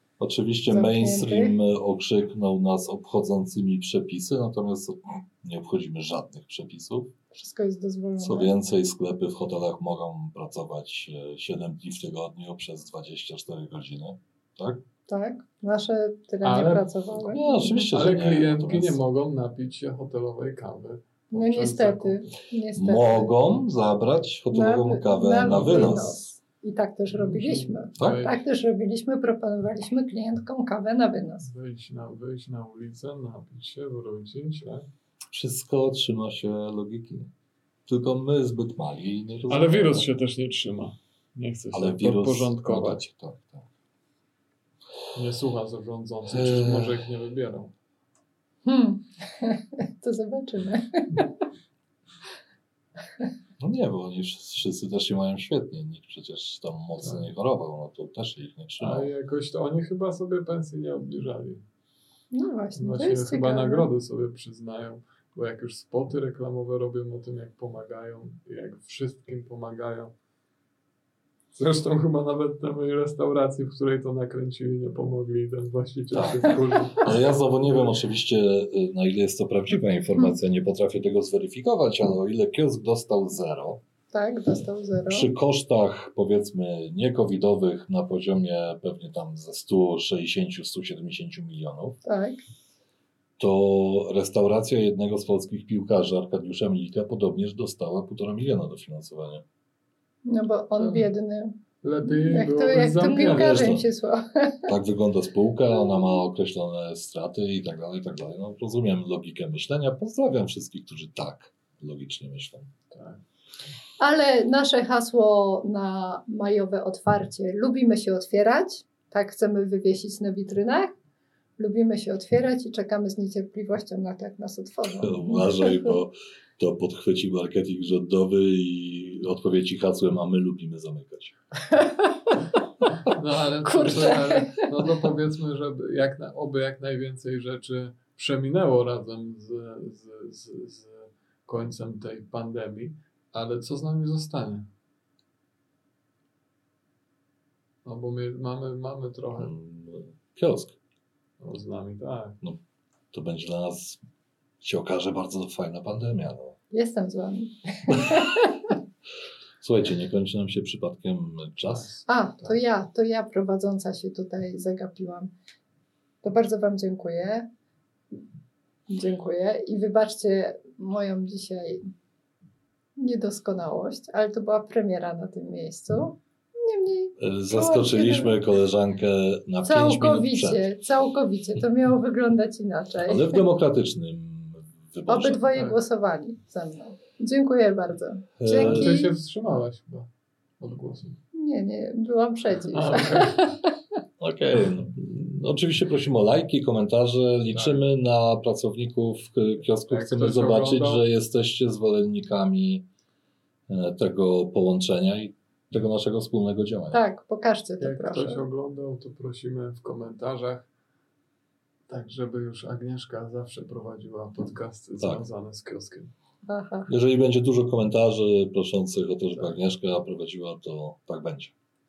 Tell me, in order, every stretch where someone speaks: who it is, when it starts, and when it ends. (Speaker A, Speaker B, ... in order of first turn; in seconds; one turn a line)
Speaker A: 0.2-7.1
Speaker B: 0.7-1.6
Speaker B: 7.3-8.5
Speaker A: 8.2-14.8
Speaker B: 15.1-17.9
Speaker C: 16.4-16.9
Speaker A: 17.2-19.0
Speaker C: 17.9-22.3
Speaker B: 21.3-23.3
Speaker A: 22.8-26.3
Speaker B: 24.5-31.5
Speaker C: 27.1-28.4
Speaker C: 31.4-34.9
Speaker A: 35.3-37.3
Speaker A: 37.9-40.1
Speaker C: 39.5-43.0
Speaker A: 41.7-43.7
Speaker C: 45.1-47.7
Speaker A: 46.3-47.0
Speaker B: 48.7-51.3
Speaker A: 53.6-59.1
Speaker C: 57.0-57.3
Speaker C: 58.8-61.6
Speaker B: 62.3-63.9
Speaker C: 62.8-70.1
Speaker C: 71.5-78.0
Speaker A: 76.1-83.8
Speaker B: 84.1-85.3
Speaker A: 85.1-92.0
Speaker B: 92.0-92.4
Speaker A: 93.4-99.4
Speaker B: 100.3-104.7
Speaker C: 100.8-101.1
Speaker C: 101.8-103.8
Speaker A: 103.2-103.9
Speaker A: 104.7-112.7
Speaker C: 112.9-113.2
Speaker B: 114.0-120.9
Speaker B: 121.6-126.0
Speaker A: 124.9-131.3
Speaker B: 131.7-132.0
Speaker C: 133.1-144.7
Speaker B: 133.7-135.0
Speaker C: 147.8-149.5
Speaker A: 149.4-150.8
Speaker C: 151.4-152.4
Speaker A: 153.1-154.0
Speaker A: 154.6-156.6
Speaker B: 156.7-158.8
Speaker A: 159.6-161.9
Speaker C: 161.7-162.6
Speaker B: 162.1-165.3
Speaker B: 166.2-167.5
Speaker B: 168.9-171.9
Speaker B: 173.0-178.4
Speaker A: 177.2-180.7
Speaker B: 179.6-183.4
Speaker A: 183.1-185.4
Speaker B: 185.1-189.1
Speaker C: 185.5-185.8
Speaker A: 188.4-188.9
Speaker C: 188.5-191.2
Speaker B: 191.3-193.7
Speaker C: 192.7-193.4
Speaker A: 194.2-202.8
Speaker C: 197.5-197.8
Speaker C: 199.9-201.0
Speaker A: 203.7-207.0
Speaker B: 206.9-208.4
Speaker C: 207.8-210.7
Speaker C: 211.9-216.1
Speaker B: 216.5-216.9
Speaker A: 216.9-221.5